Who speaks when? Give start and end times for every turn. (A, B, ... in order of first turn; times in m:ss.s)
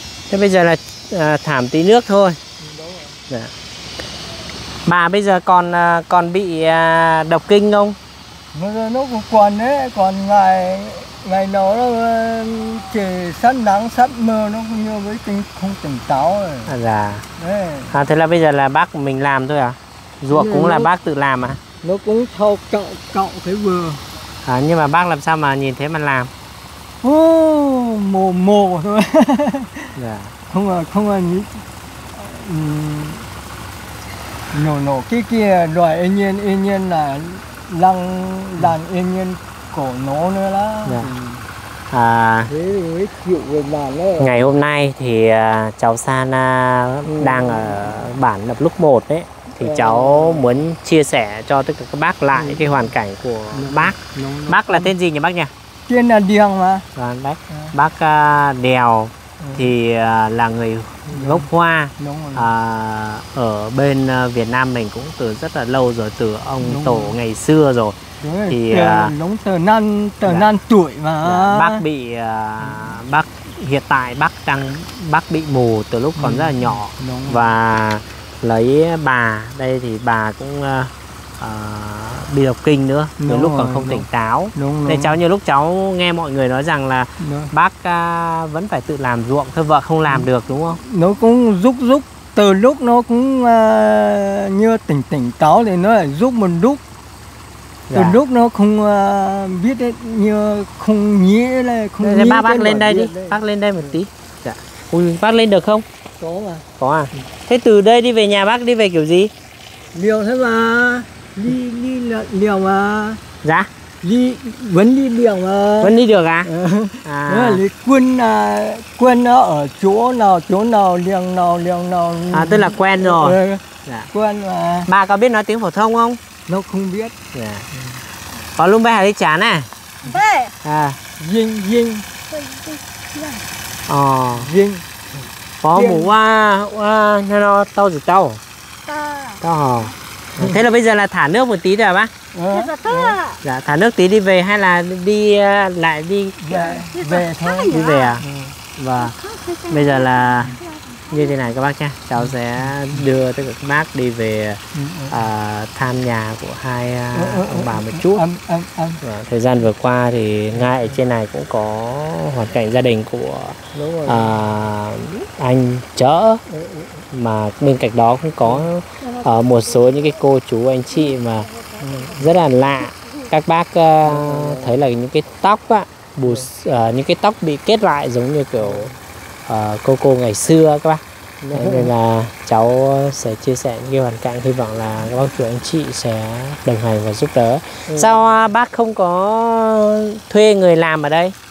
0:00.3-0:02.4 A
0:02.6-0:03.2 B
0:04.9-0:08.0 A
0:08.5-0:16.7 B
0:16.7-0:17.2 A
0:17.4-0:17.9 B
0:17.9-0:21.6 A
0:20.3-0:20.9 B
0:21.8-0:24.0 B
0:24.4-0:26.3 A
0:27.0-0:30.0 B
0:30.0-0:30.3 A
0:30.5-0:33.3 B
0:34.5-0:41.5 B
0:40.9-0:41.1 A
0:41.9-0:42.5 A
0:42.5-0:44.4 B
0:44.2-0:55.5 A
0:47.0-0:48.0 B
0:49.6-0:50.5 B
0:52.3-0:52.9 B
0:53.5-0:54.9 B
0:55.9-0:56.9 B
0:57.0-1:08.0 A
0:59.4-0:59.6 B
1:01.1-1:02.5 B
1:06.6-1:07.2 B
1:08.2-1:11.8 B
1:08.5-1:09.1 A
1:11.2-1:30.8 A
1:12.6-1:13.0 B
1:16.2-1:17.5 B
1:23.2-1:25.2 B
1:27.2-1:27.5 B
1:30.1-1:36.8 B
1:37.9-1:38.2 A
1:37.9-1:44.0 B
1:42.0-1:45.8 A
1:46.2-1:46.7 B
1:46.8-1:49.3 A
1:49.9-1:53.2 B
1:53.4-1:53.7 A
1:54.0-2:04.9 B
1:55.8-1:56.5 A
1:57.0-1:57.6 A
2:02.3-2:04.1 A
2:04.9-2:06.2 A
2:06.5-2:07.2 B
2:07.3-2:07.7 A
2:07.7-2:08.0 B
2:08.6-2:09.7 A
2:10.0-2:10.5 C
2:10.6-2:11.0 A
2:11.2-2:12.1 B
2:12.3-2:13.5 C
2:13.9-2:14.5 A
2:14.3-2:14.8 B
2:15.6-2:18.4 A
2:15.7-2:16.1 B
2:18.8-2:19.4 C
2:19.4-2:22.1 A
2:22.3-2:23.2 B
2:22.5-2:23.4 C
2:23.4-2:26.4 A
2:26.4-2:28.6 B
2:26.5-2:28.2 C
2:27.7-2:28.2 A
2:28.8-2:29.1 A
2:29.0-2:31.4 C
2:29.7-2:30.6 A
2:31.1-2:38.2 A
2:34.7-2:35.2 B
2:37.1-2:39.0 B
2:39.0-2:46.4 A
2:43.7-2:44.4 B
2:46.5-2:47.0 B
2:47.1-2:51.5 A
2:49.0-2:50.2 C
2:50.9-2:53.3 C
2:51.8-2:52.3 B
2:52.0-2:58.9 A
2:54.0-2:54.8 B
2:58.6-2:59.0 B
2:59.5-3:11.3 A
3:01.4-3:01.9 B
3:07.9-3:08.2 B